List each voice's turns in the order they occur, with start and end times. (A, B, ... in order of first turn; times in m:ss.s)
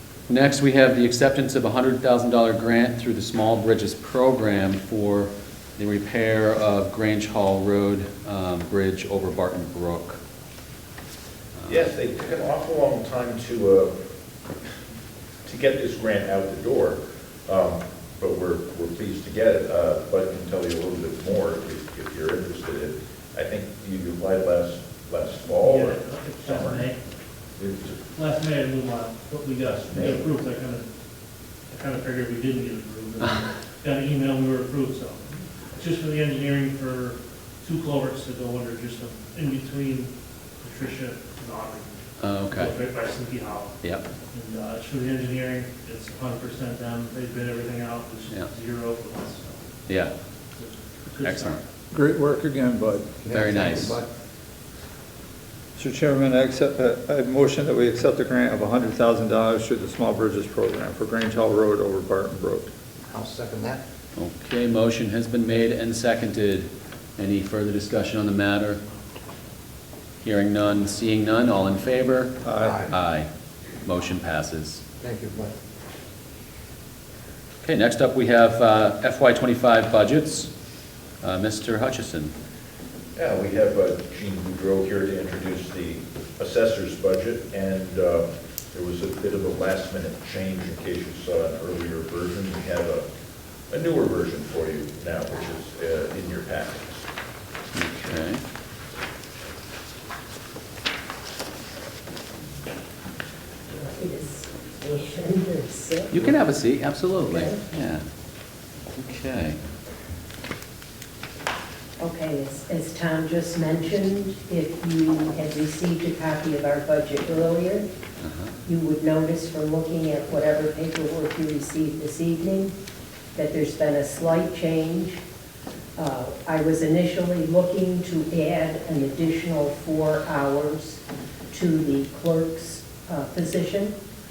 0:00.3-0:10.2 A
0:11.6-0:11.9 A
0:11.7-0:13.9 B
0:15.4-0:26.9 B
0:25.5-0:27.0 C
0:27.6-0:28.0 B
0:28.1-0:30.9 C
0:29.6-0:30.3 B
0:31.7-0:49.9 C
0:42.2-0:42.8 A
0:49.9-0:50.1 A
0:50.5-0:51.6 C
0:51.2-0:51.6 A
0:51.9-0:53.2 D
0:53.2-0:54.1 E
0:53.3-0:54.0 A
0:55.8-1:02.7 D
1:03.1-1:03.8 E
1:04.2-1:08.8 A
1:10.2-1:13.3 A
1:12.4-1:12.8 D
1:12.6-1:12.9 E
1:13.8-1:14.8 A
1:15.0-1:15.5 E
1:17.6-1:20.5 A
1:21.2-1:22.3 A
1:23.2-1:33.0 B
1:33.7-1:37.1 B
1:37.7-1:38.4 A
1:43.7-1:46.2 F
1:46.1-1:48.0 A
1:47.3-1:47.6 F
1:48.9-1:49.6 A
1:52.0-1:57.9 F
1:58.2-1:58.5 A
1:58.6-2:02.7 F
2:03.4-2:05.2 F
2:06.0-2:14.0 F